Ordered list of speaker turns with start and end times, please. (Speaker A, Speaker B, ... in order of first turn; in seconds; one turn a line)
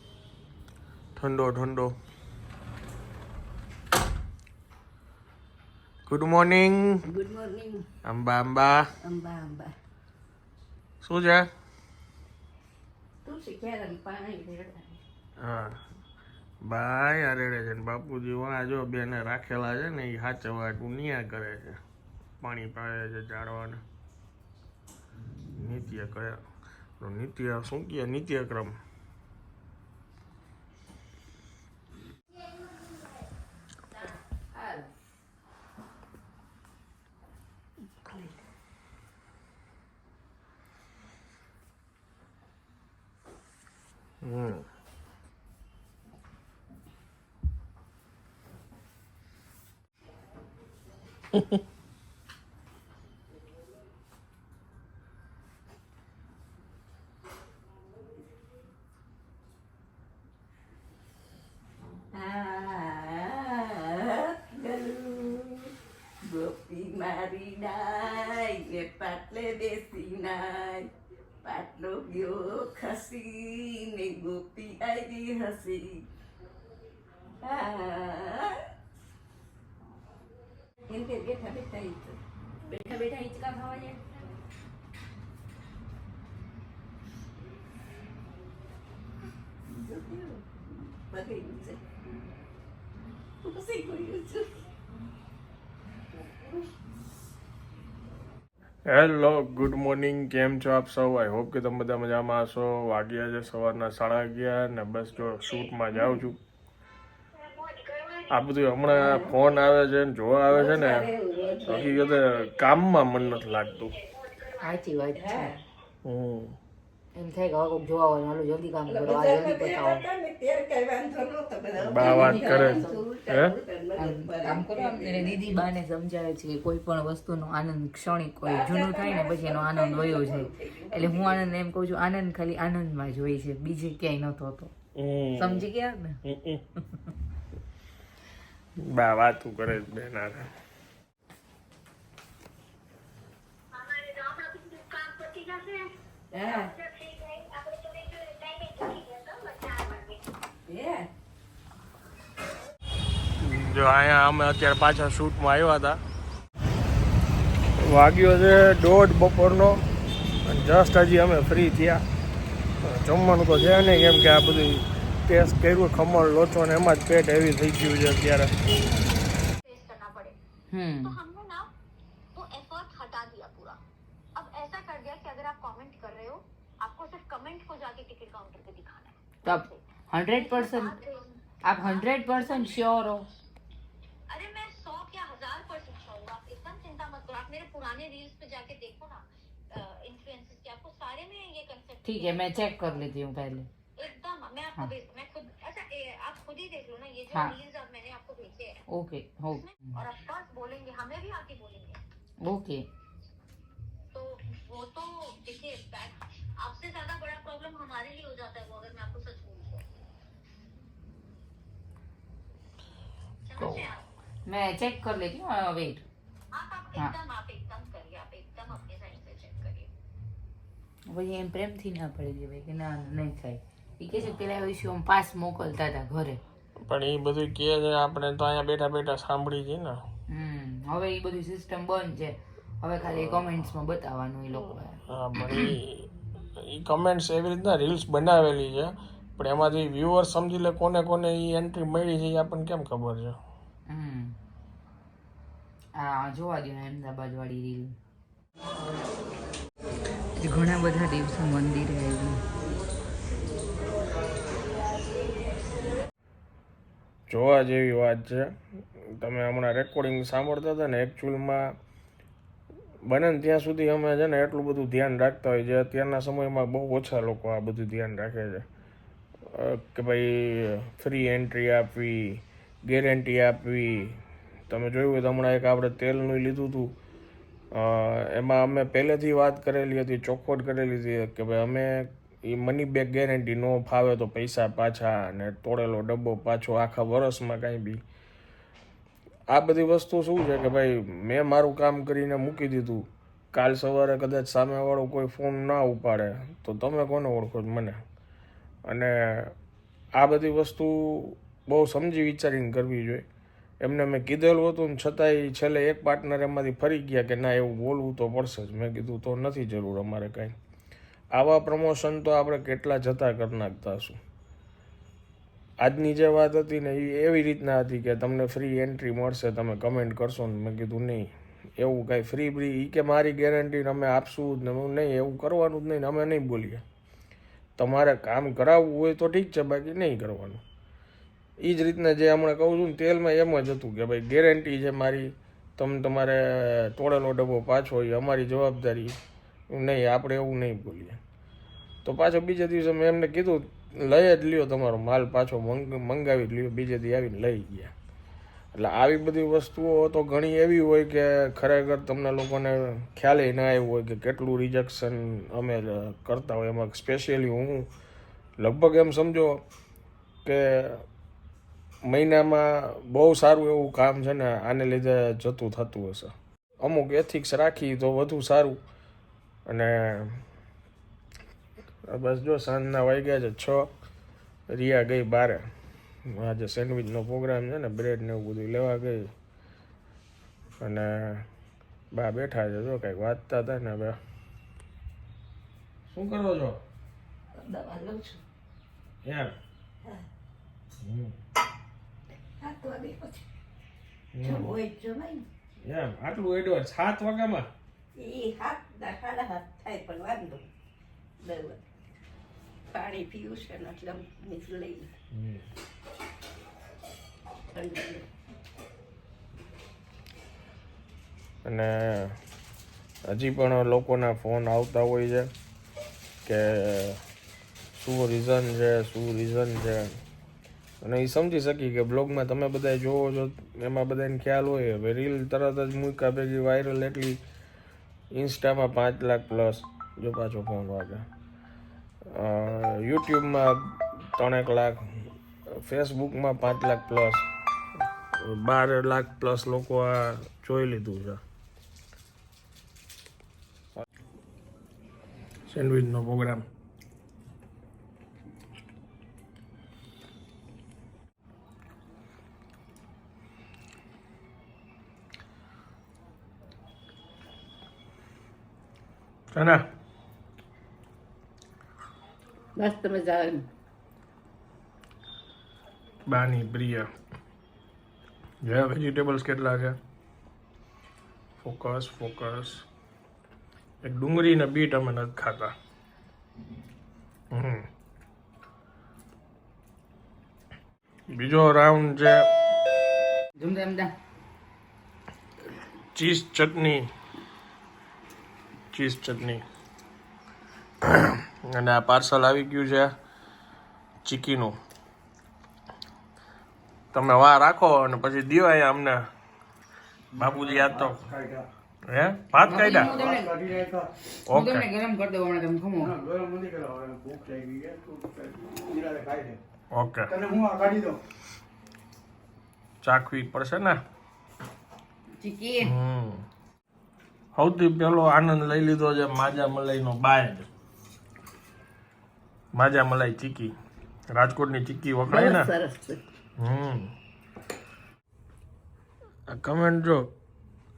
Speaker A: 1.2-1.9
Speaker A: 6.1-7.1
Speaker B: 7.1-7.9
Speaker A: 8.0-8.9
Speaker B: 9.0-9.7
Speaker A: 11.0-11.5
Speaker B: 13.2-15.0
Speaker A: 15.4-15.8
Speaker A: 16.6-21.8
Speaker A: 22.4-23.8
Speaker A: 25.6-26.4
Speaker A: 27.0-28.8
Speaker C: 34.5-34.9
Speaker B: 38.0-38.4
Speaker A: 44.2-44.7
Speaker A: 51.3-51.6
Speaker B: 62.1-65.7
Speaker B: 66.2-70.9
Speaker B: 71.4-76.0
Speaker B: 77.4-78.5
Speaker B: 80.9-82.2
Speaker C: 82.7-84.0
Speaker B: 82.8-83.7
Speaker B: 89.7-90.5
Speaker B: 91.1-91.8
Speaker B: 93.4-94.6
Speaker A: 98.9-106.4
Speaker A: 108.3-111.1
Speaker B: 108.9-109.4
Speaker B: 110.5-112.0
Speaker A: 111.6-114.0
Speaker C: 114.6-115.5
Speaker B: 115.2-115.6
Speaker A: 116.0-116.6
Speaker C: 117.2-120.0
Speaker B: 118.9-125.7
Speaker A: 121.8-123.6
Speaker C: 122.0-123.0
Speaker C: 124.0-134.7
Speaker B: 128.4-131.5
Speaker A: 134.9-135.7
Speaker C: 135.4-136.2
Speaker A: 136.2-136.6
Speaker A: 138.8-140.5
Speaker D: 143.8-145.9
Speaker B: 146.3-146.8
Speaker D: 146.5-150.2
Speaker B: 150.7-151.1
Speaker A: 153.4-156.0
Speaker A: 157.8-159.8
Speaker A: 160.5-162.0
Speaker A: 162.8-168.6
Speaker D: 169.7-170.4
Speaker C: 170.7-171.2
Speaker D: 171.0-171.7
Speaker D: 172.3-173.8
Speaker D: 174.3-179.8
Speaker C: 179.4-181.0
Speaker D: 180.3-182.8
Speaker C: 181.6-183.3
Speaker D: 184.3-193.0
Speaker C: 192.0-193.7
Speaker D: 194.0-198.8
Speaker C: 198.9-199.7
Speaker D: 199.6-202.0
Speaker C: 202.4-202.8
Speaker D: 204.1-209.8
Speaker D: 213.4-214.1
Speaker C: 213.6-213.8
Speaker C: 214.5-216.0
Speaker D: 216.5-219.9
Speaker C: 221.1-226.4
Speaker A: 226.8-230.0
Speaker C: 230.3-235.0
Speaker A: 233.1-233.7
Speaker A: 235.1-243.4
Speaker C: 243.9-244.4
Speaker C: 246.0-247.9
Speaker C: 250.4-252.4
Speaker A: 257.3-261.8
Speaker A: 263.1-268.6
Speaker A: 269.5-276.9
Speaker A: 277.7-288.0
Speaker A: 289.5-298.0
Speaker A: 298.9-299.6
Speaker A: 300.2-303.2
Speaker A: 303.8-310.6
Speaker A: 311.3-314.2
Speaker A: 315.8-326.8
Speaker A: 327.8-330.6
Speaker A: 331.6-339.2
Speaker A: 339.7-341.2
Speaker A: 342.1-347.9
Speaker A: 348.8-357.9
Speaker A: 358.6-359.6
Speaker A: 360.4-361.1
Speaker A: 362.1-368.8
Speaker A: 369.7-370.4
Speaker A: 372.1-373.9
Speaker A: 374.7-375.7
Speaker A: 376.3-379.3
Speaker A: 380.8-381.5
Speaker A: 382.1-384.2
Speaker A: 386.1-386.8
Speaker B: 387.6-388.4
Speaker A: 389.2-389.6
Speaker A: 391.0-391.3
Speaker B: 392.6-393.4
Speaker A: 394.3-394.8
Speaker B: 394.4-395.5
Speaker A: 395.8-397.7
Speaker B: 398.1-400.7
Speaker B: 401.4-401.8
Speaker B: 402.9-405.1
Speaker A: 405.3-405.6
Speaker B: 407.7-408.3
Speaker A: 411.6-412.4
Speaker A: 413.3-415.5
Speaker A: 416.4-417.2
Speaker A: 418.0-420.2
Speaker A: 421.0-427.4
Speaker A: 428.3-431.3
Speaker A: 432.3-437.4
Speaker A: 438.3-441.4
Speaker A: 445.7-446.6
Speaker A: 459.5-459.8
Speaker B: 462.8-463.7
Speaker A: 466.3-467.1
Speaker A: 468.6-470.0
Speaker A: 471.6-472.9
Speaker A: 474.0-475.7
Speaker A: 477.5-477.9
Speaker A: 481.3-482.5
Speaker C: 483.6-484.1
Speaker A: 486.1-487.1
Speaker A: 488.9-489.6
Speaker A: 491.0-493.1
Speaker A: 494.2-494.8
Speaker A: 497.1-499.3
Speaker A: 500.4-501.3
Speaker E: 500.4-501.7
Speaker A: 502.1-503.2
Speaker C: 502.7-503.7
Speaker E: 502.8-504.1
Speaker A: 504.5-504.9
Speaker C: 504.5-506.2
Speaker E: 506.0-509.6
Speaker A: 509.9-510.3
Speaker E: 510.3-511.2
Speaker A: 513.0-514.0
Speaker C: 515.4-515.9
Speaker A: 515.8-516.5
Speaker A: 517.5-520.7
Speaker A: 522.7-523.8
Speaker A: 524.3-525.7
Speaker B: 525.3-526.2
Speaker A: 526.6-527.1
Speaker A: 529.5-530.3